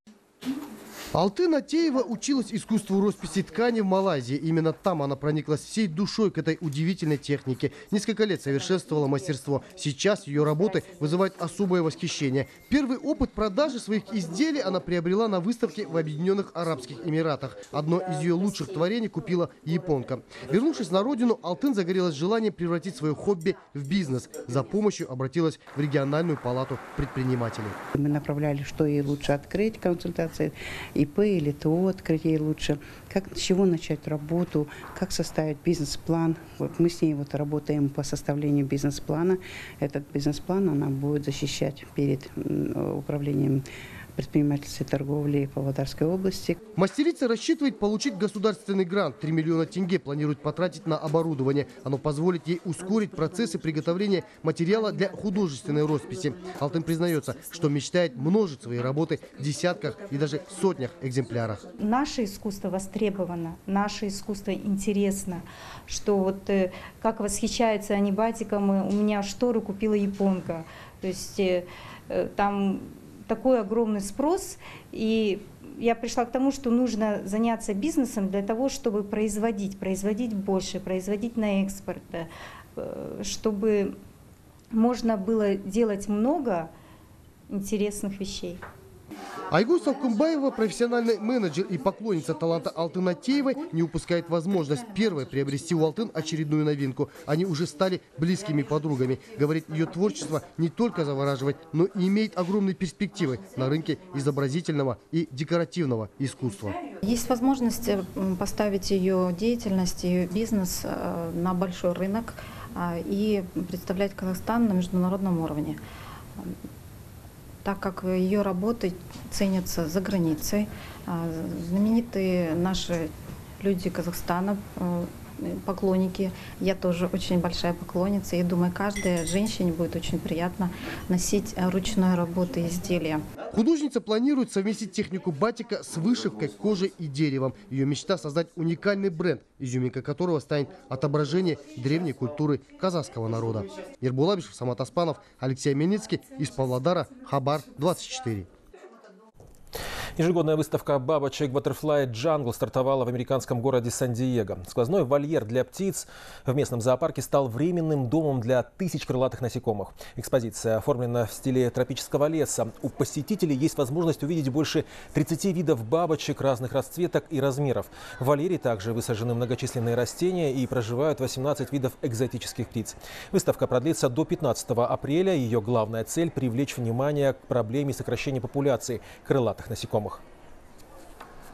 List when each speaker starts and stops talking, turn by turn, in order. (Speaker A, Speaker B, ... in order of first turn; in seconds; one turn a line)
Speaker A: 1.1-27.8
Speaker B: 28.0-46.6
Speaker A: 46.8-61.6
Speaker C: 61.8-83.9
Speaker C: 84.7-86.7
Speaker C: 87.5-88.6
Speaker A: 89.5-106.8
Speaker D: 107.0-115.8
Speaker D: 117.6-133.2
Speaker A: 133.5-148.5
Speaker E: 150.2-180.2